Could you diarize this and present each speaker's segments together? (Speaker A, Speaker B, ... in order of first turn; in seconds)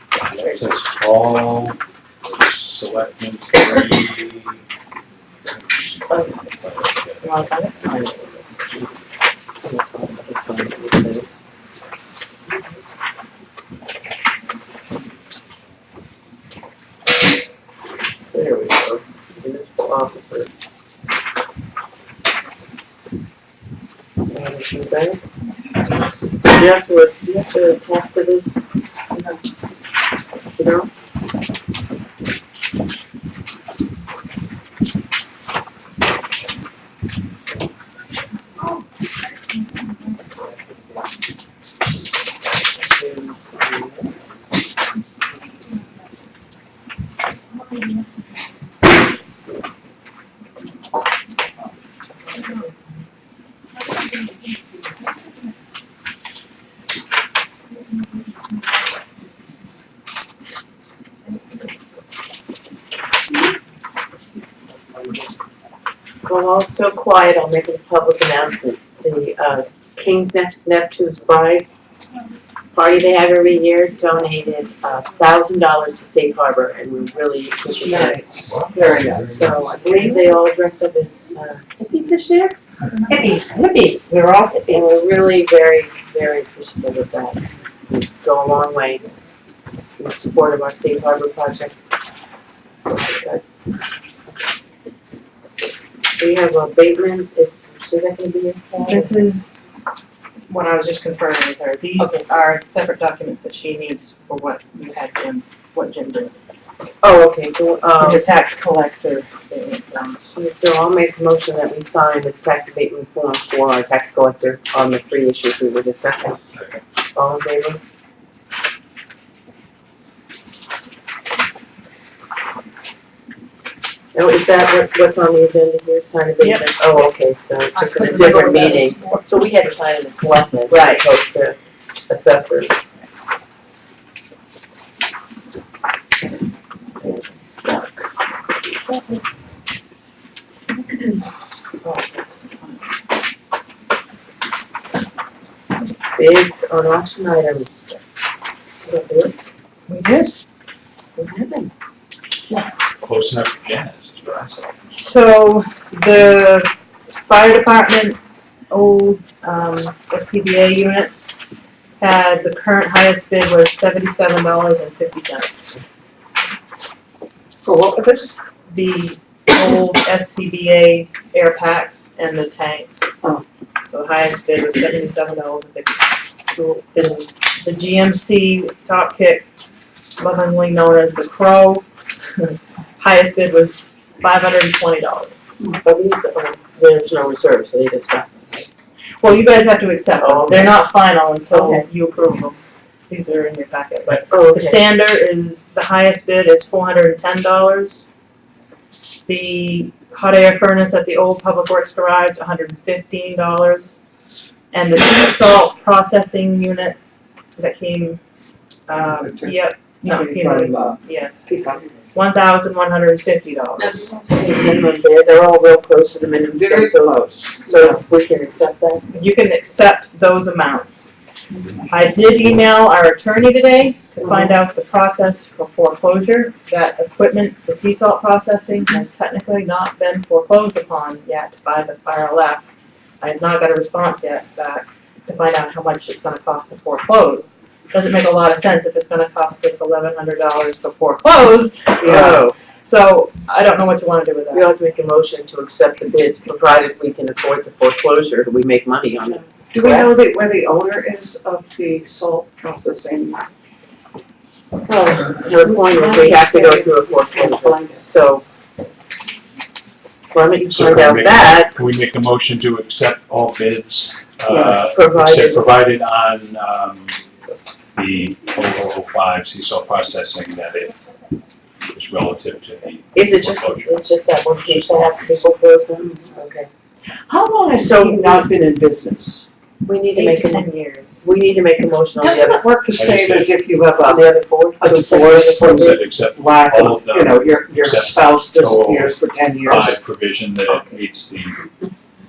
Speaker A: 0.2-0.6, 6.1-6.4, 7.2-8.6, 98.8-99.6, 100.5-106.3, 108.0-110.3, 126.4-127.1, 127.7-129.2, 130.7-131.1, 137.0-137.8, 141.8-142.8, 149.9-150.3, 154.9-156.7, 157.2-158.2, 158.7-161.4, 162.0-165.8, 168.7-173.1, 173.8-179.5, 180.2-181.8, 182.4-185.3, 189.2-192.6, 193.1-198.1, 199.3-204.0, 204.7-207.0, 207.6-208.2, 208.9-211.5, 212.1-214.1, 219.1-221.1, 221.8-244.7, 280.1-281.2
Speaker B: 0.3-4.6, 5.4-7.5, 78.5-79.1, 116.4-116.8, 153.0-154.7, 260.7-267.2, 267.9-271.0, 271.9-275.5, 282.9-283.6, 285.7-291.7
Speaker C: 9.6-11.3, 18.3-20.5, 24.3-25.2, 26.4-28.6, 30.6-30.9, 66.2-71.8, 72.7-78.3, 79.3-82.5, 83.1-89.0, 90.0-91.7, 92.8-93.4, 96.2-99.2, 102.0-102.2, 107.0-108.2, 110.3-116.4, 117.1-117.8, 124.1-131.6, 132.1-132.8, 146.1-148.0, 148.8-149.5, 151.2-151.7, 185.7-188.7, 190.2-190.8, 191.5-191.8, 194.1-194.8, 213.8-219.1, 242.0-242.5, 244.5-250.1, 254.9-258.4, 260.3-261.7, 264.8-265.7, 273.1-276.7, 277.8-278.4, 279.8-280.7, 281.2-282.6, 284.0-286.1
Speaker D: 77.8-80.4, 128.2-129.0, 167.6-168.3, 209.0-211.9, 216.5-217.6, 242.0-242.4, 249.7-253.4, 255.2-258.1, 264.5-264.9, 277.3-279.5, 282.1-289.9